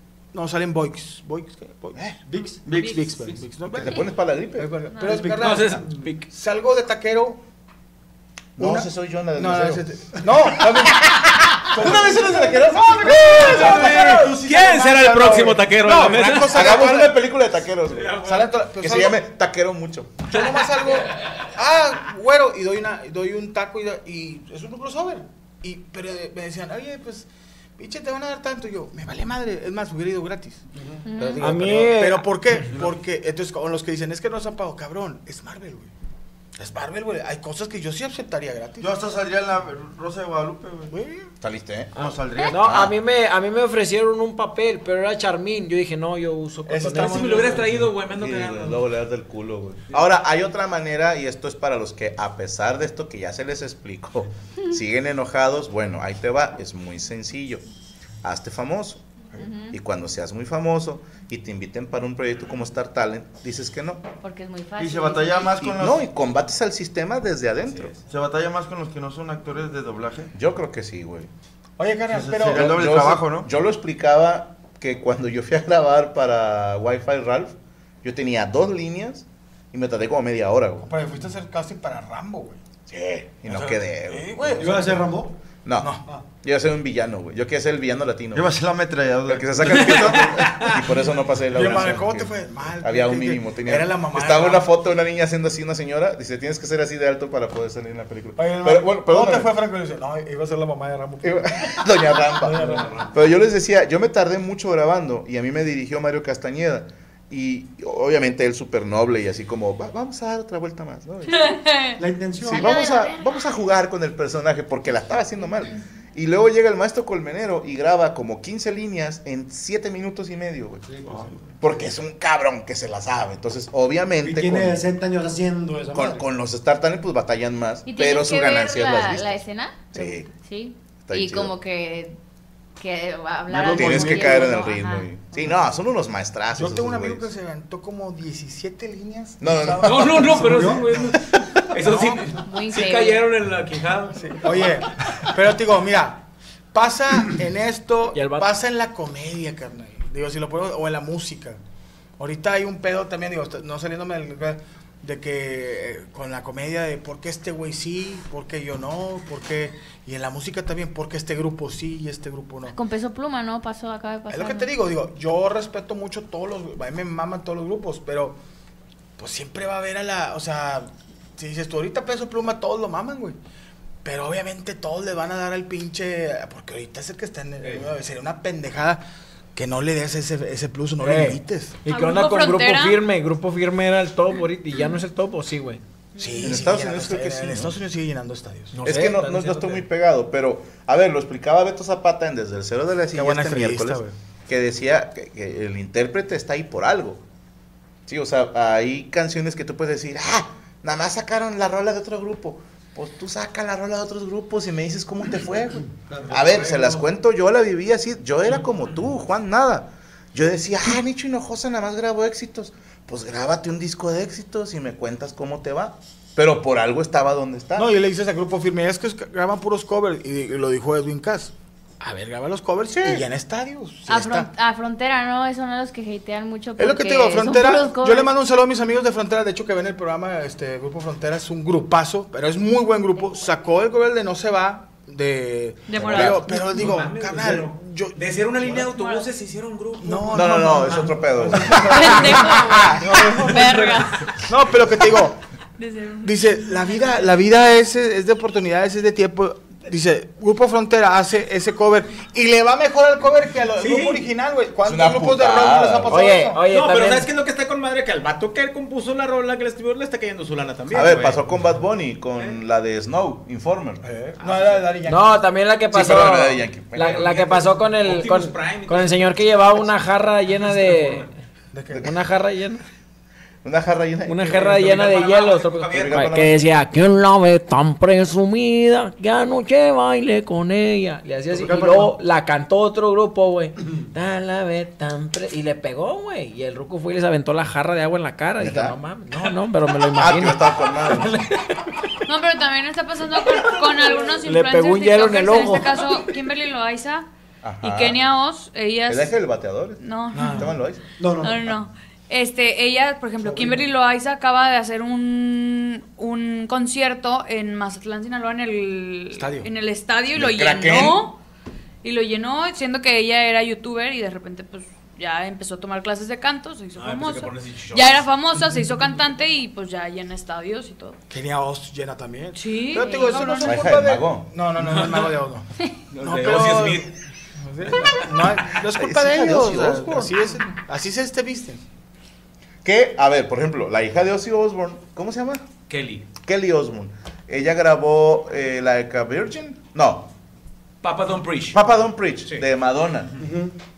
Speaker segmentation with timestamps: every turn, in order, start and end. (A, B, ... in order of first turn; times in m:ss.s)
0:00.3-0:07.4 A
0:02.2-0:02.6 B
0:02.6-0:03.2 C
0:02.7-0:03.1 D
0:03.7-0:04.7 E
0:04.9-0:05.3 D
0:05.0-0:05.6 B
0:05.3-0:06.3 F
0:08.6-0:11.1 E
0:08.6-0:17.2 A
0:13.0-0:16.8 F
0:13.4-0:14.2 E
0:16.4-0:20.3 E
0:17.9-0:18.5 F
0:18.2-0:19.2 A
0:20.3-0:30.6 A
0:31.0-0:31.5 G
0:31.2-0:35.9 A
0:31.4-0:32.3 H
0:36.6-0:38.9 A
0:38.8-0:41.0 C
0:40.9-0:41.3 A
0:41.4-0:41.9 E
0:41.9-0:42.8 C
0:42.1-0:47.6 H
0:42.5-0:42.9 E
0:46.7-0:47.8 A
0:46.9-0:48.8 F
0:48.0-0:57.6 E
0:58.2-0:59.0 E
0:59.4-0:59.8 G
0:59.7-1:04.0 E
1:04.2-1:05.6 G
1:04.8-1:06.0 C
1:05.6-1:07.9 E
1:07.6-1:08.0 F
1:08.1-1:10.3 C
1:10.3-1:11.3 E
1:11.8-1:12.7 A
1:12.1-1:13.5 C
1:12.5-1:20.9 E
1:20.8-1:22.6 A
1:22.9-1:24.9 E
1:23.5-1:25.1 A
1:24.6-1:25.4 B
1:25.6-1:28.5 E
1:25.8-1:26.0 A
1:28.3-1:30.3 C
1:29.2-1:39.5 E
1:29.6-1:30.8 F
1:31.5-1:34.7 A
1:38.4-1:43.2 A
1:41.2-1:51.6 E
1:42.6-1:43.0 F
1:51.3-1:52.0 D
1:52.0-1:52.8 B
1:52.4-2:04.8 E
1:52.4-1:53.6 G
2:00.8-2:01.3 B
2:04.2-2:06.2 B
2:05.9-2:10.3 E
2:07.8-2:12.2 G
2:11.0-2:11.5 E
2:12.8-2:15.1 G
2:13.6-2:14.4 A
2:13.6-2:17.3 E
2:16.5-2:21.2 A
2:19.4-2:20.6 E
2:19.8-2:24.9 F
2:20.5-2:20.8 B
2:21.8-2:22.4 A
2:22.4-2:23.2 G
2:24.2-2:31.6 A
2:28.1-2:28.5 H
2:32.2-2:42.8 A
2:42.7-2:44.7 G
2:44.3-2:48.4 A
2:49.2-2:53.4 A
2:54.0-2:59.0 A
2:57.6-2:57.9 F
2:59.5-3:01.8 A
3:01.0-3:05.8 H
3:01.8-3:03.0 D
3:06.2-3:08.8 A
3:06.4-3:07.7 E
3:08.7-3:09.8 H
3:08.8-3:17.2 E
3:13.1-3:14.1 A
3:18.1-3:37.9 E
3:26.1-3:26.8 B
3:37.8-3:44.5 A
3:42.9-3:43.2 E
3:44.1-3:48.3 G
3:46.8-3:58.9 A
3:55.9-3:56.4 D
3:56.0-3:56.4 E
3:56.0-4:01.8 F
3:58.9-3:59.3 D
4:00.0-4:05.4 A
4:00.3-4:02.8 E
4:01.9-4:04.3 D
4:03.6-4:04.4 F
4:05.8-4:07.1 D
4:06.2-4:16.6 A
4:13.8-4:14.2 F
4:14.8-4:16.3 E
4:16.1-4:17.3 H
4:16.6-4:21.5 F
4:20.9-4:24.0 E
4:24.0-4:24.9 F
4:24.4-4:25.4 A
4:25.1-4:31.3 H
4:25.9-4:27.4 E
4:27.0-4:29.9 F
4:30.6-4:31.2 F
4:31.7-4:32.1 A
4:32.0-4:32.8 H
4:33.6-4:35.0 E
4:34.2-4:51.9 H
4:34.5-4:36.5 F
4:35.9-4:36.6 E
4:48.6-4:49.0 E
4:50.1-4:51.4 E
4:52.2-4:57.3 D
4:54.3-4:56.0 H
4:57.6-4:58.2 E
4:57.8-4:59.4 D
4:59.1-5:01.0 E
5:00.0-5:00.7 D
5:00.3-5:00.7 A
5:01.2-5:01.8 B
5:01.4-5:11.4 D
5:03.4-5:03.8 B
5:09.3-5:09.7 A
5:10.3-5:11.2 E
5:12.0-5:21.2 D
5:16.9-5:18.3 F
5:21.3-5:25.7 A
5:22.5-5:23.8 D
5:23.0-5:23.4 G
5:23.6-5:24.5 E
5:24.8-5:25.3 F
5:26.1-5:27.1 F
5:26.2-5:31.8 A
5:28.7-5:30.4 E
5:32.8-5:35.7 E
5:35.9-5:36.3 F
5:36.4-5:40.3 E
5:41.0-5:41.8 F
5:41.7-5:43.3 E
5:43.4-5:43.7 B